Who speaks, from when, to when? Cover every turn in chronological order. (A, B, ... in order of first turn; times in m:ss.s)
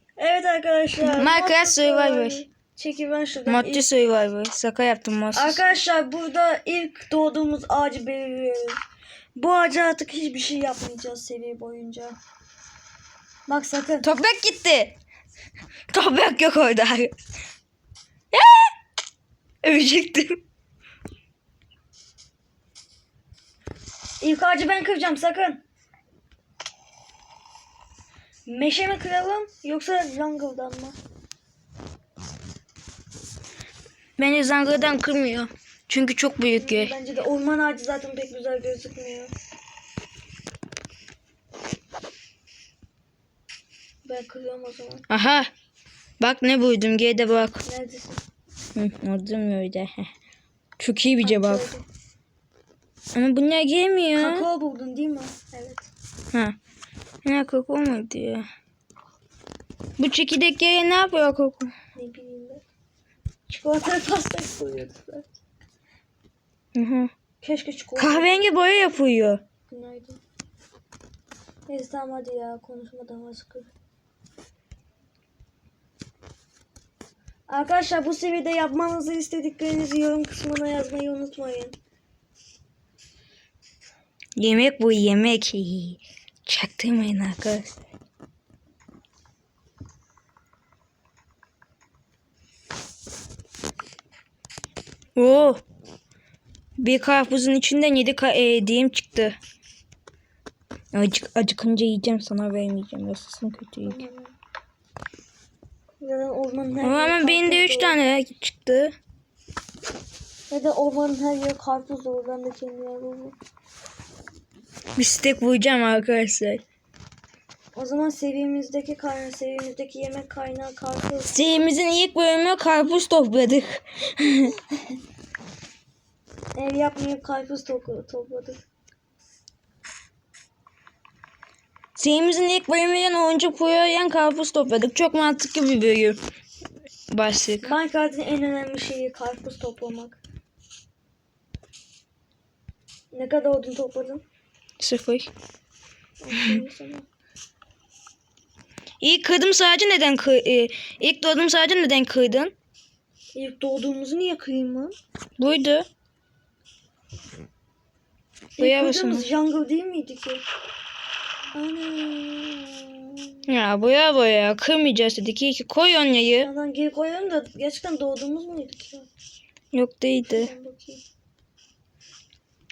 0:00.2-0:03.8 A
0:01.0-0:02.4 B
0:03.4-0:05.6 B
0:05.3-0:08.8 A
0:09.3-0:12.2 A
0:13.5-0:14.1 A
0:14.0-0:15.0 B
0:15.9-0:17.1 B
0:18.3-0:18.7 B
0:19.6-0:20.4 B
0:24.2-0:25.6 A
0:28.4-0:31.0 A
0:34.2-0:36.9 B
0:36.6-0:39.3 A
0:44.0-0:45.0 A
0:45.1-0:45.5 B
0:46.2-0:47.6 B
0:47.6-0:48.2 A
0:48.8-0:50.1 B
0:50.8-0:51.6 B
0:51.2-0:51.8 A
0:53.1-0:54.5 B
0:54.2-0:55.9 A
0:57.2-0:58.5 B
1:00.0-1:01.7 B
1:01.9-1:02.6 A
1:03.5-1:05.4 A
1:06.7-1:07.1 B
1:07.4-1:08.5 A
1:08.0-1:09.4 B
1:09.7-1:10.2 A
1:11.7-1:13.7 A
1:17.5-1:21.8 A
1:24.4-1:27.8 B
1:35.2-1:35.6 B
1:36.8-1:39.4 B
1:40.9-1:44.0 B
1:43.8-1:44.3 A
1:46.0-1:48.0 A
1:46.8-1:48.9 B
1:50.5-1:53.4 A
1:55.0-1:56.6 B
1:57.7-2:01.3 A
2:01.3-2:04.6 B
2:06.5-2:08.6 A
2:12.0-2:16.2 B
2:17.1-2:17.7 B
2:17.6-2:20.2 A
2:23.1-2:24.2 A
2:24.8-2:25.3 B
2:26.2-2:27.0 A
2:29.0-2:32.5 B
2:33.3-2:34.9 A
2:35.4-2:35.9 B
2:38.6-2:40.4 A
2:38.6-2:39.3 B
2:41.5-2:43.2 A
2:43.5-2:46.5 B
2:46.4-2:49.1 A
2:49.7-2:50.5 B
2:50.3-2:51.0 A